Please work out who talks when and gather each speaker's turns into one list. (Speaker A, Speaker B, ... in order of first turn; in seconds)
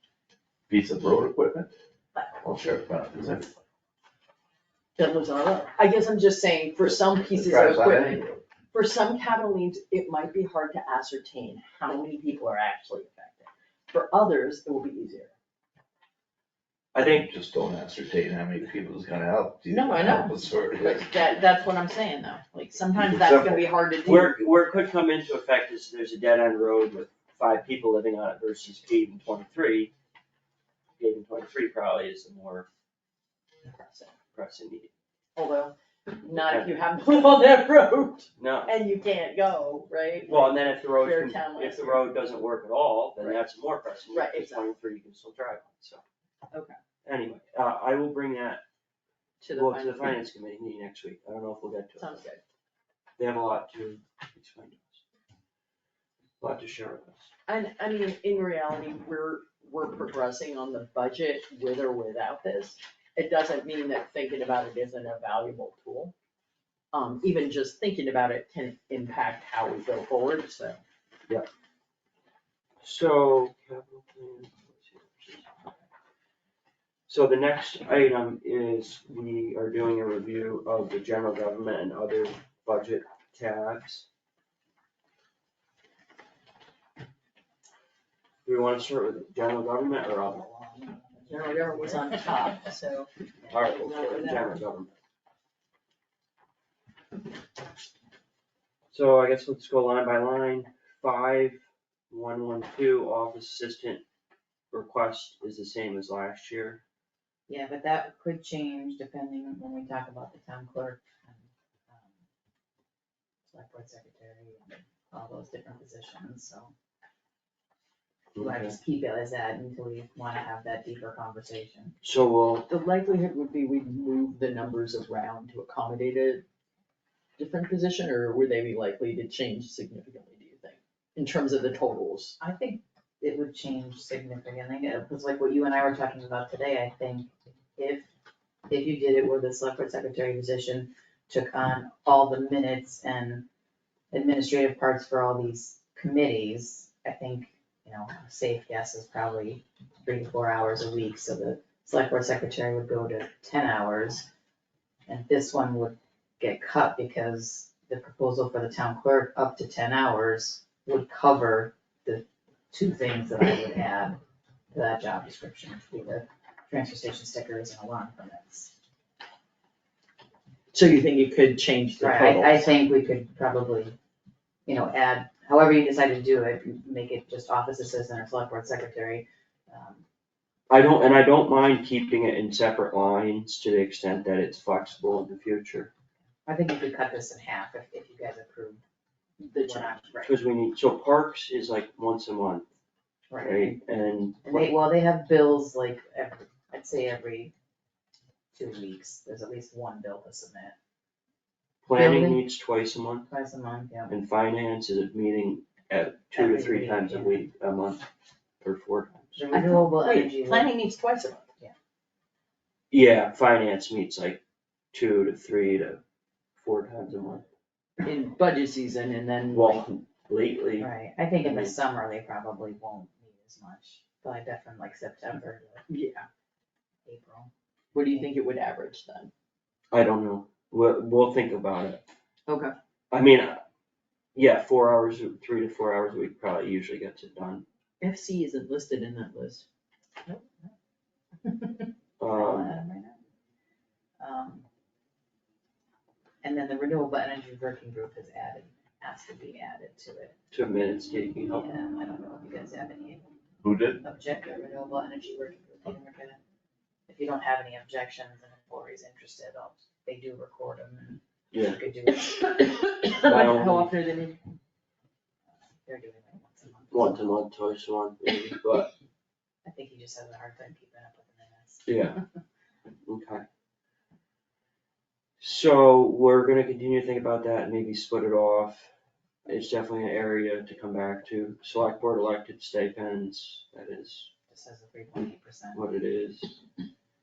Speaker A: 0.7-1.7, 2.4-3.5, 7.3-8.4, 17.0-21.1, 22.9-23.7, 253.6-254.0
Speaker B: 5.0-15.3, 19.7-24.4, 33.6-34.1, 35.4-42.1, 43.2-43.5, 44.1-44.7, 46.5-46.8, 49.4-50.2, 52.0-52.4, 57.5-66.1, 66.9-70.8, 91.3-93.1, 93.6-94.5, 122.7-126.4, 127.4-132.4, 170.7-172.7, 189.4-190.0, 209.5-211.5, 218.0-219.8, 225.9-226.2, 227.9-229.3, 232.5-232.7, 238.0-239.7, 262.2-264.4
Speaker C: 16.9-17.3, 24.0-29.9, 31.0-32.7, 34.3-34.9, 36.4-36.8, 38.4-38.7, 40.3-46.0, 47.0-48.6, 49.5-52.2, 53.2-55.0, 56.4-57.3, 72.8-75.5, 77.1-84.0, 88.4-90.5, 93.5-94.9, 98.9-104.0, 104.7-106.8, 118.3-118.7, 122.0-122.7, 180.7-185.9, 190.2-192.7, 193.4-194.7, 201.8-203.3, 204.1-208.0, 208.6-209.4, 212.9-214.4, 214.9-216.0, 216.6-217.4, 219.5-220.9, 221.4-221.7, 229.9-232.0, 233.1-233.6, 234.3-237.6, 242.2-242.8, 250.5-251.7, 261.5-261.8, 263.2-263.9, 266.9-268.9, 271.9-272.2, 273.1-273.4, 275.4-278.9, 279.4-284.3, 285.7-286.6
Speaker D: 90.4-92.2, 107.5-112.1, 113.5-116.7, 118.4-122.0, 132.4-138.1, 138.7-143.4, 144.1-154.3, 155.1-164.2, 164.7-168.7, 172.0-173.9, 174.7-180.0, 186.4-188.8, 189.6-190.4, 193.3-193.8, 194.4-197.5, 198.5-200.8, 201.9-202.4, 203.3-204.2, 206.3-207.4, 209.3-210.7, 220.8-225.8, 227.1-227.5, 240.2-240.7, 241.4-243.2, 244.2-244.6, 246.4-250.3, 251.5-253.2, 254.0-256.4, 257.1-262.3, 265.8-267.4, 269.6-272.2, 284.5-285.8